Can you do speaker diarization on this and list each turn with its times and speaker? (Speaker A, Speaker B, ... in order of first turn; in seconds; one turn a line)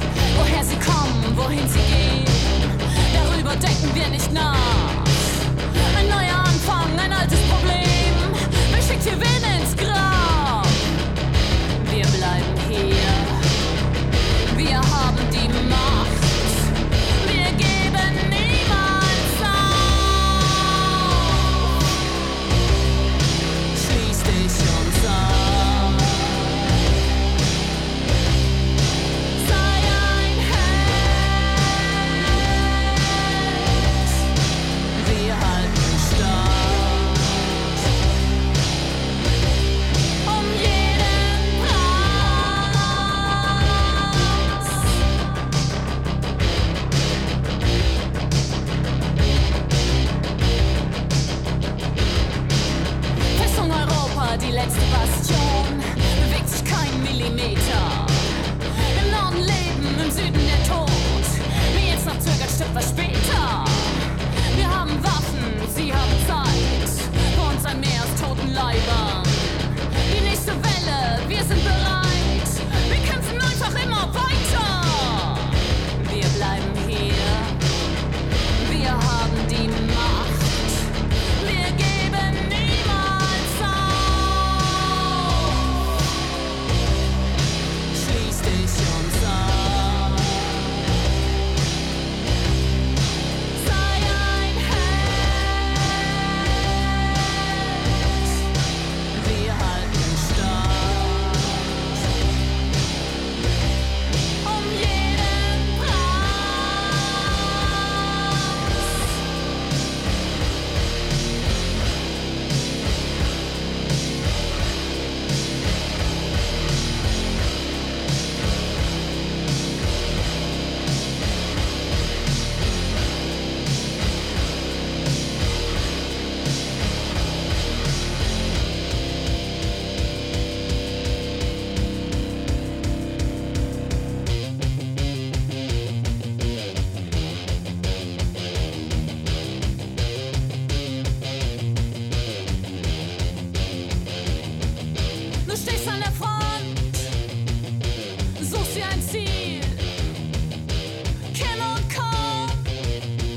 Speaker A: 0.3-10.9
Speaker A: 11.8-13.5
Speaker A: 14.5-22.1
Speaker A: 23.7-26.8
Speaker A: 29.3-34.3
Speaker A: 34.9-37.9
Speaker A: 40.2-45.0
Speaker A: 53.3-77.6
Speaker A: 78.6-86.5
Speaker A: 87.9-90.8
Speaker A: 93.5-98.5
Speaker A: 99.1-102.1
Speaker A: 104.4-108.8
Speaker A: 145.4-147.1
Speaker A: 148.4-149.9
Speaker A: 151.3-152.7